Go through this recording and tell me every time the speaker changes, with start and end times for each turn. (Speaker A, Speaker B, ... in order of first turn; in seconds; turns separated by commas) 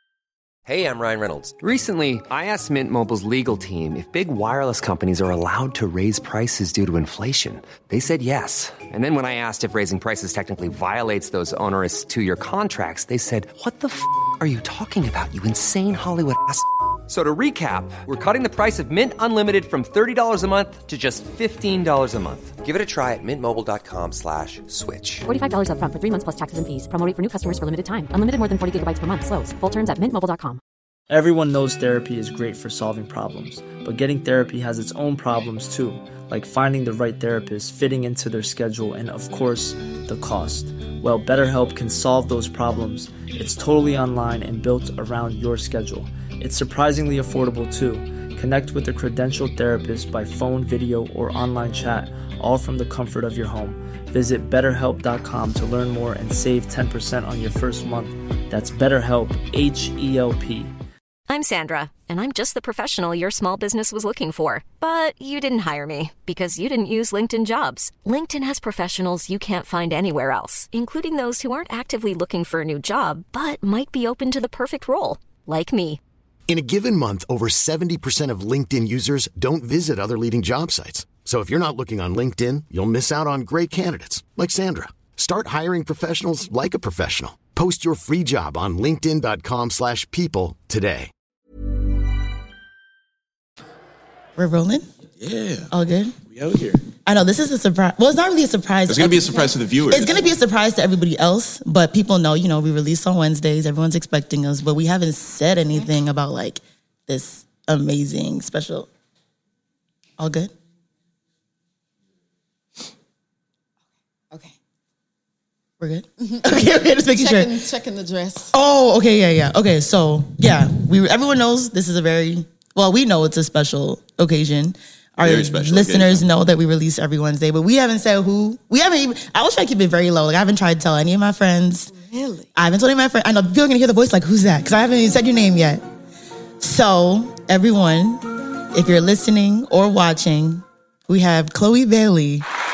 Speaker A: 0.7-25.2, Speaker B: 25.2-30.6, Speaker C: 31.1-60.7, Speaker D: 61.3-76.0, Speaker E: 76.5-91.1, Speaker F: 94.4-94.8, Speaker G: 95.2-95.7, Speaker F: 95.7-96.1, Speaker G: 96.3-96.8, Speaker F: 97.0-108.9, Speaker G: 98.9-100.2, Speaker F: 110.2-110.5, Speaker F: 115.8-117.5, Speaker H: 116.2-116.5, Speaker H: 117.1-118.5, Speaker F: 118.5-131.9, Speaker G: 125.2-126.3, Speaker H: 131.9-132.5, Speaker F: 132.5-135.8, Speaker F: 136.6-142.4